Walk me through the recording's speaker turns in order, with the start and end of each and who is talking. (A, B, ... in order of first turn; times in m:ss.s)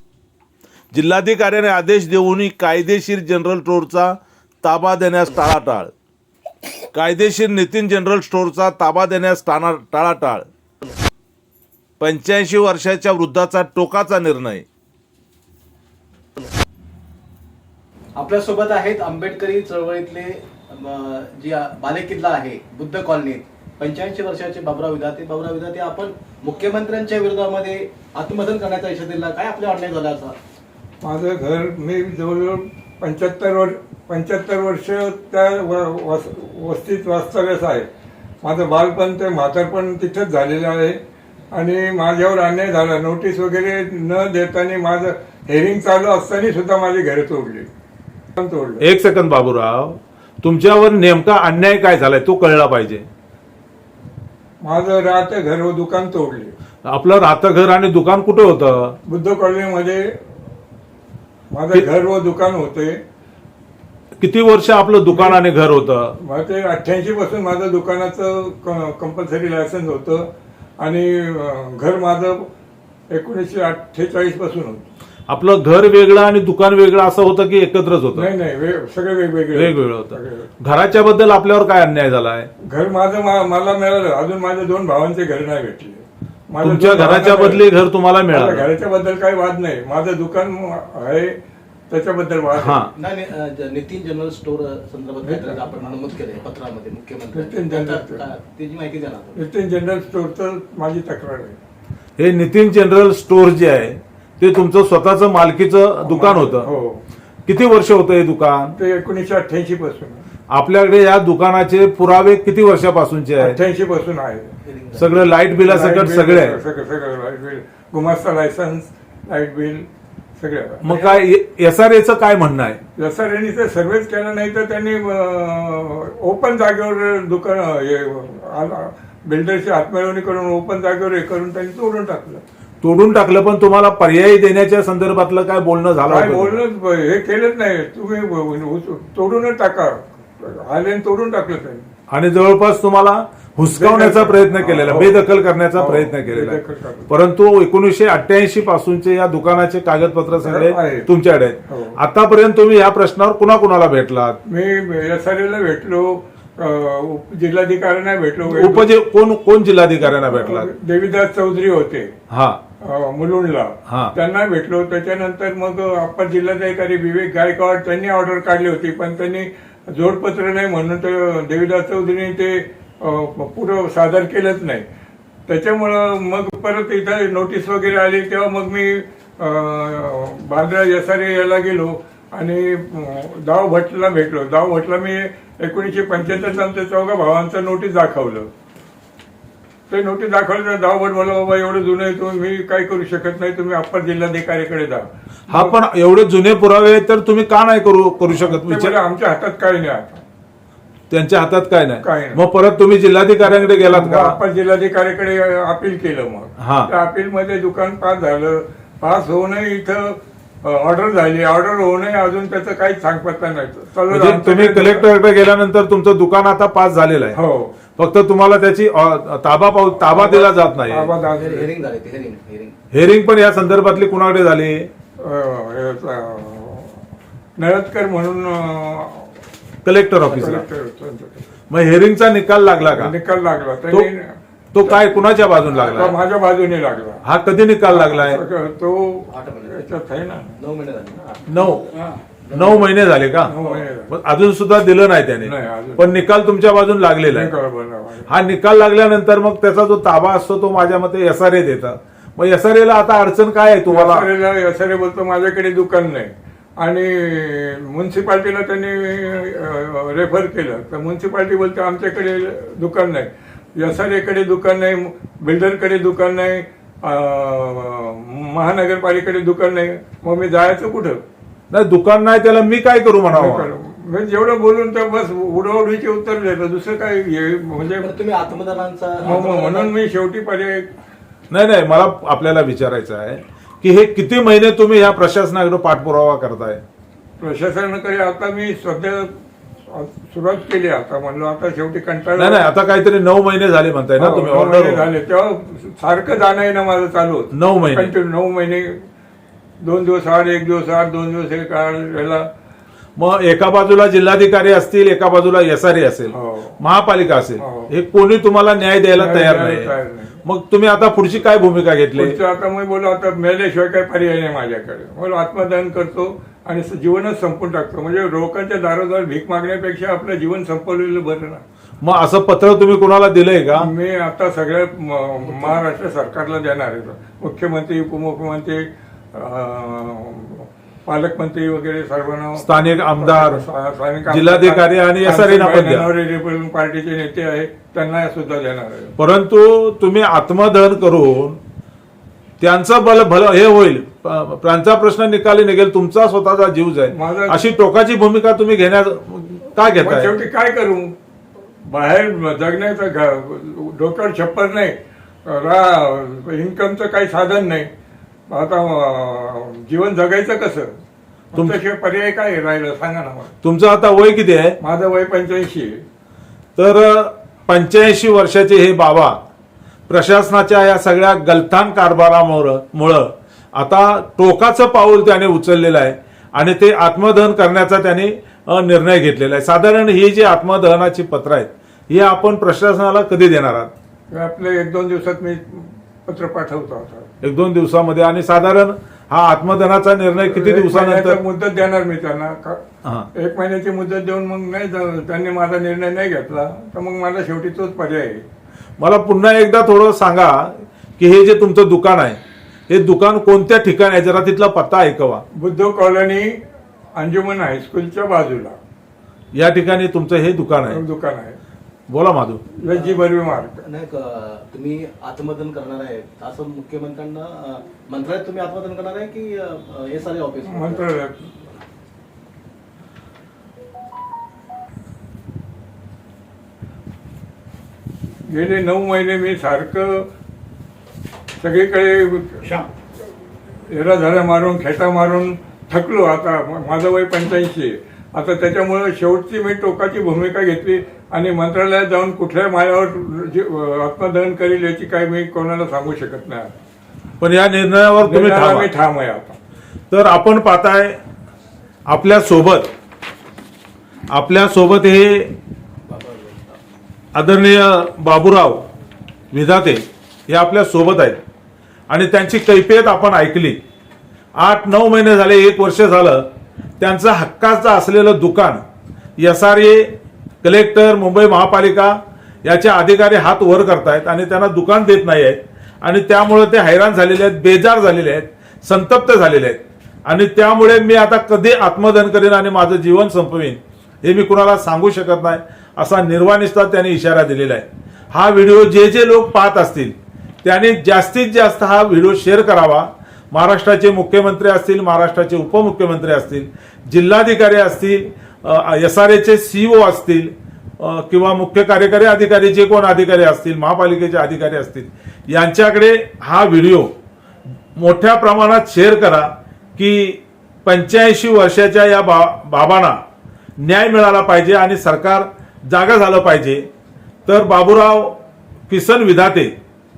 0:00.9-0:05.9 A
0:06.9-0:10.5 A
0:12.0-0:14.7 A
0:18.2-0:30.4 B
0:31.0-0:37.9 C
0:38.4-0:41.0 C
0:41.5-0:47.7 C
0:48.4-0:48.8 C
0:48.8-0:53.1 A
0:54.6-0:56.6 C
0:56.9-0:59.0 A
0:59.0-1:00.1 C
1:01.5-1:03.0 C
1:04.2-1:06.1 A
1:05.1-1:05.4 C
1:06.2-1:10.3 C
1:10.8-1:12.4 C
1:13.1-1:14.9 C
1:15.3-1:18.3 A
1:18.2-1:20.5 C
1:19.5-1:22.5 A
1:22.6-1:27.7 C
1:26.6-1:28.7 A
1:28.3-1:31.4 C
1:31.9-1:32.9 C
1:32.5-1:32.9 A
1:33.0-1:39.4 B
1:35.2-1:36.0 C
1:37.3-1:38.3 C
1:39.4-1:41.6 C
1:42.2-1:46.7 A
1:46.0-1:47.0 C
1:47.5-1:48.8 A
1:48.8-1:50.3 C
1:50.5-1:53.6 A
1:53.4-1:54.6 C
1:54.6-1:55.3 B
1:55.0-1:56.6 A
1:55.6-2:00.9 C
2:00.8-2:02.8 A
2:00.9-2:01.2 B
2:03.0-2:12.4 C
2:12.8-2:16.6 A
2:16.0-2:21.9 C
2:22.1-2:34.4 A
2:23.7-2:27.1 C
2:30.4-2:31.1 C
2:31.7-2:32.0 C
2:34.5-2:38.9 C
2:38.5-2:40.7 A
2:40.0-2:42.2 C
2:42.3-2:42.6 A
2:42.8-2:54.9 C
2:43.9-2:44.1 A
2:55.5-3:08.5 C
3:09.9-3:15.8 C
3:15.5-3:19.0 A
3:18.3-3:20.2 C
3:21.1-3:24.4 A
3:22.0-3:22.4 C
3:23.4-3:35.1 C
3:26.6-3:26.9 A
3:34.1-3:37.4 A
3:37.3-3:37.8 C
3:38.0-3:41.1 A
3:40.0-3:41.7 C
3:41.3-3:42.8 B
3:42.9-3:44.9 A
3:45.2-3:47.0 C
3:47.6-3:49.3 C
3:49.8-3:50.7 A
3:50.2-3:51.5 C
3:51.7-3:53.1 A
3:52.8-3:54.3 C
3:54.7-3:56.2 A
3:54.8-3:57.2 C
3:57.2-3:58.4 A
3:57.9-4:00.6 C
3:59.3-3:59.8 B
4:00.6-4:02.9 B
4:01.5-4:01.8 A
4:02.5-4:03.6 A
4:03.4-4:04.1 C
4:04.1-4:07.5 A
4:05.4-4:06.1 C
4:07.2-4:08.3 C
4:08.3-4:14.3 A
4:13.9-4:31.2 C
4:31.7-4:33.7 A
4:33.3-4:38.1 C
4:38.0-4:39.9 B
4:39.2-4:40.9 C
4:41.5-4:46.8 A
4:47.4-4:49.3 C
4:49.8-4:52.7 C
4:52.4-4:55.0 A
4:54.2-4:59.0 C
4:57.5-4:58.1 A
4:59.8-5:02.5 C
5:03.2-5:09.9 A
5:06.3-5:06.8 C
5:07.6-5:07.9 C
5:09.2-5:10.4 C
5:10.4-5:12.4 A
5:12.1-5:21.6 C
5:22.0-5:23.9 A
5:23.8-5:28.8 C
5:25.5-5:25.8 B
5:29.4-5:39.2 C
5:32.6-5:33.6 A
5:34.3-5:36.1 A
5:39.2-5:41.6 A
5:42.6-5:50.3 A
5:47.1-5:47.6 C
5:49.8-5:51.1 C
5:51.8-5:57.9 C
5:58.5-6:01.0 C
6:01.5-6:03.5 C
6:03.6-6:04.8 A
6:04.8-6:06.0 C
6:06.8-6:09.4 A
6:10.1-6:23.9 A
6:24.3-6:27.3 C
6:27.4-6:31.4 A
6:30.4-6:32.8 C
6:33.3-6:38.5 C
6:39.0-6:45.4 A
6:45.5-6:46.5 C
6:47.2-6:48.8 C
6:49.6-6:51.0 A
6:50.9-6:51.6 C
6:52.1-6:52.6 A
6:52.7-6:53.8 C
6:52.9-6:53.3 B
6:53.8-7:01.1 B
7:00.7-7:01.5 C
7:08.5-7:10.3 C
7:11.6-7:12.7 C
7:13.9-7:26.8 C
7:27.4-7:28.9 A
7:28.2-7:29.6 C
7:30.1-7:31.2 A
7:32.1-7:32.9 A
7:34.3-7:35.5 A
7:36.1-7:36.8 B
7:37.3-7:38.9 A
7:39.5-7:41.4 A
7:42.1-7:43.8 A
7:44.6-7:46.5 A
7:47.0-7:48.8 A
7:49.4-8:27.1 A
8:28.0-8:33.2 A
8:33.8-8:36.9 A
8:37.5-8:38.4 A
8:38.9-8:39.7 A